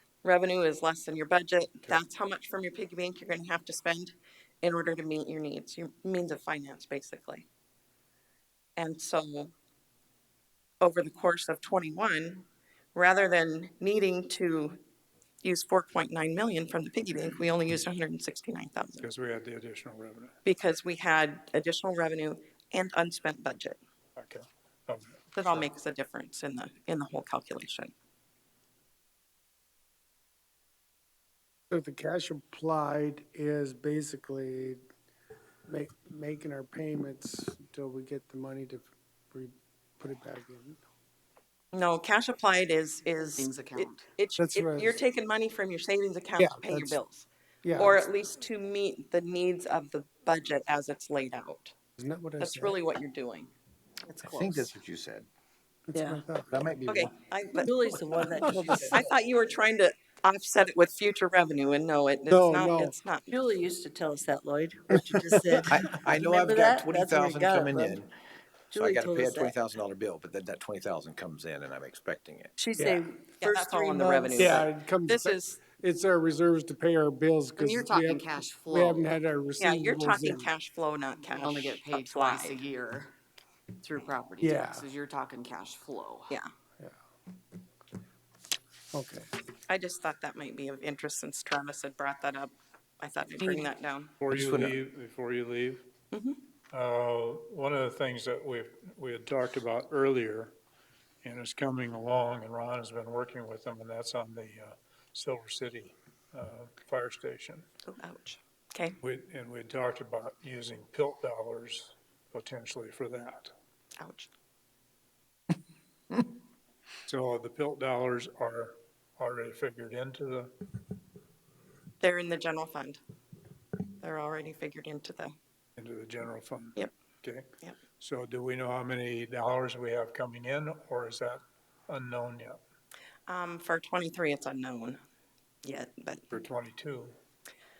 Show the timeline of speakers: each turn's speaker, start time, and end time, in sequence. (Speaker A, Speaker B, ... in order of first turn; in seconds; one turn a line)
Speaker A: 0.2-7.5
Speaker A: 8.8-9.5
Speaker A: 10.8-14.8
Speaker A: 15.4-19.1
Speaker B: 19.0-20.3
Speaker A: 20.4-23.8
Speaker B: 24.2-25.7
Speaker A: 25.3-27.9
Speaker C: 31.7-34.8
Speaker C: 35.7-40.8
Speaker A: 41.7-51.7
Speaker D: 43.4-44.0
Speaker C: 44.4-45.0
Speaker C: 46.4-47.0
Speaker C: 47.6-48.0
Speaker C: 52.0-52.8
Speaker A: 52.4-53.5
Speaker E: 54.2-55.2
Speaker C: 55.9-56.6
Speaker F: 55.9-56.2
Speaker E: 56.5-57.1
Speaker A: 56.9-63.4
Speaker F: 57.5-59.1
Speaker C: 62.3-62.9
Speaker F: 63.3-68.0
Speaker E: 65.7-68.1
Speaker F: 68.7-69.5
Speaker E: 68.7-72.5
Speaker F: 72.6-74.6
Speaker C: 72.8-73.0
Speaker A: 73.4-75.6
Speaker C: 74.3-80.5
Speaker D: 77.6-79.1
Speaker A: 79.6-82.6
Speaker D: 81.4-83.1
Speaker D: 83.8-86.3
Speaker C: 84.4-84.8
Speaker C: 88.9-89.3
Speaker A: 89.7-94.1
Speaker B: 94.2-95.8
Speaker E: 94.3-94.7
Speaker A: 96.1-96.4
Speaker B: 96.7-100.5
Speaker B: 101.2-107.6
Speaker A: 107.8-109.0
Speaker B: 109.0-113.5
Speaker A: 114.0-114.3
Speaker B: 117.0-120.5
Speaker A: 122.0-123.0
Speaker A: 124.0-125.3
Speaker B: 125.8-132.6
Speaker A: 133.3-135.0
Speaker A: 135.6-136.2
Speaker B: 136.3-137.2